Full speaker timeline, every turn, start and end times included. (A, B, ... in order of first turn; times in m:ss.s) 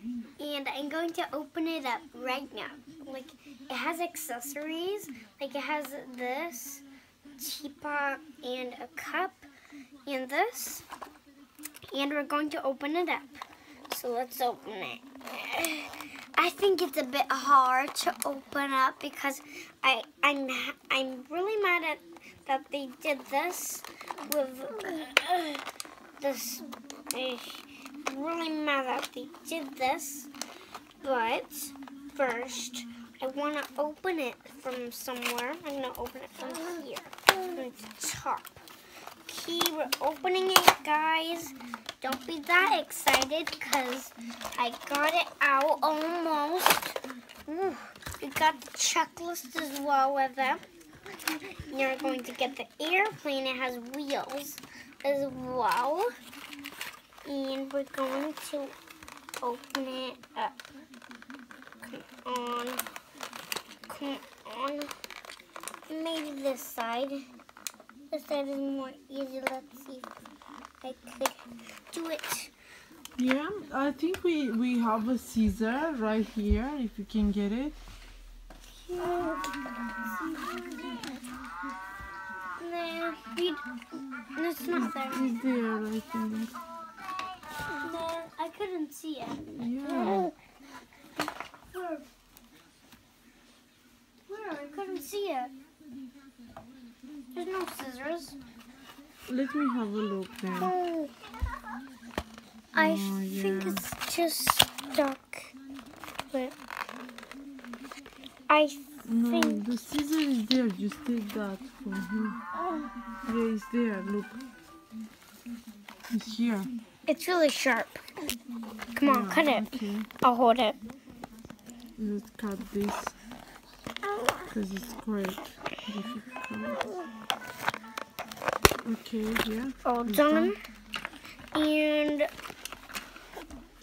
0:00.4-0:06.8 A
0:07.4-0:09.5 A
0:10.0-0:10.8 A
0:11.9-0:25.6 A
0:26.2-0:30.3 A
0:31.0-0:38.6 A
0:39.3-0:50.6 A
0:51.7-0:56.1 A
0:57.2-0:58.7 A
0:59.4-1:00.6 A
1:01.8-1:02.8 A
1:03.9-1:04.9 A
1:05.9-1:07.2 A
1:08.1-1:10.1 A
1:10.8-1:12.5 A
1:13.2-1:17.8 B
1:18.8-1:21.2 A
1:22.6-1:23.7 A
1:24.2-1:25.3 A
1:24.7-1:26.6 B
1:27.7-1:30.3 A
1:29.4-1:30.3 B
1:31.7-1:32.0 A
1:34.3-1:35.5 A
1:37.3-1:38.4 A
1:39.3-1:40.7 B
1:40.6-1:41.1 A
1:42.7-1:45.5 A
1:42.7-1:43.8 B
1:48.5-1:49.7 A
1:49.0-1:52.4 B
1:53.2-1:54.4 B
1:56.1-1:56.7 B
1:57.1-1:58.0 A
1:58.9-2:00.8 A
1:59.0-2:00.1 B
2:02.0-2:03.2 B
2:04.5-2:06.9 B
2:08.8-2:10.5 B
2:09.8-2:10.6 A
2:11.5-2:12.3 A